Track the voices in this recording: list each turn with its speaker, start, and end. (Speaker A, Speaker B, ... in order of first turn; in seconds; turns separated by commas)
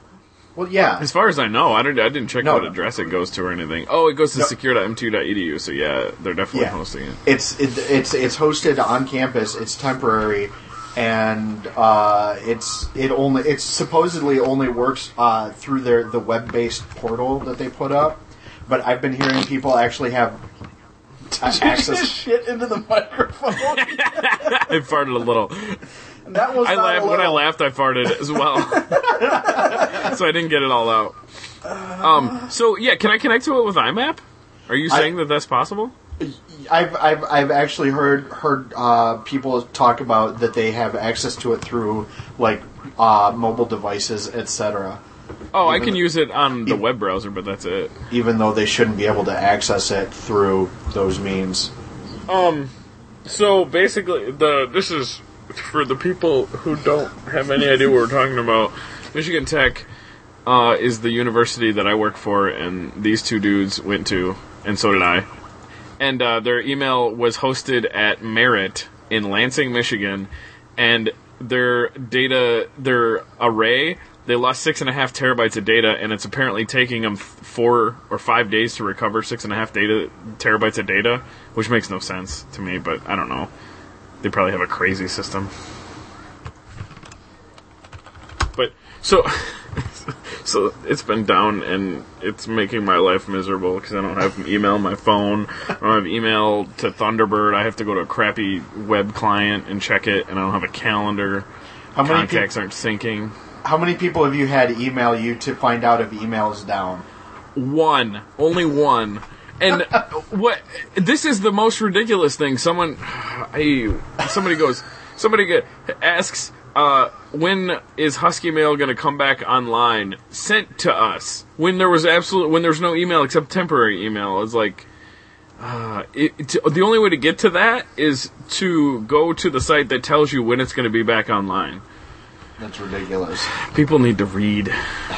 Speaker A: 0.6-1.1, Speaker B: 1.0-7.2, Speaker A: 2.4-2.7, Speaker A: 6.5-20.4, Speaker C: 21.3-24.7, Speaker A: 21.4-22.2, Speaker B: 23.7-25.8, Speaker C: 26.3-27.5, Speaker B: 26.6-31.2, Speaker C: 28.7-30.1, Speaker A: 29.1-29.5, Speaker C: 31.6-32.5, Speaker B: 32.0-35.9, Speaker A: 34.9-35.1, Speaker A: 36.2-45.0, Speaker B: 45.5-48.0, Speaker A: 45.6-46.1, Speaker A: 48.1-51.7, Speaker B: 52.3-52.7, Speaker B: 53.2-59.9, Speaker B: 60.5-65.3, Speaker B: 66.0-83.5, Speaker B: 84.2-85.5, Speaker B: 88.5-103.3, Speaker A: 102.0-102.5, Speaker A: 103.6-107.1, Speaker B: 107.5-124.9, Speaker B: 125.6-131.8, Speaker A: 132.6-133.5, Speaker B: 133.5-134.8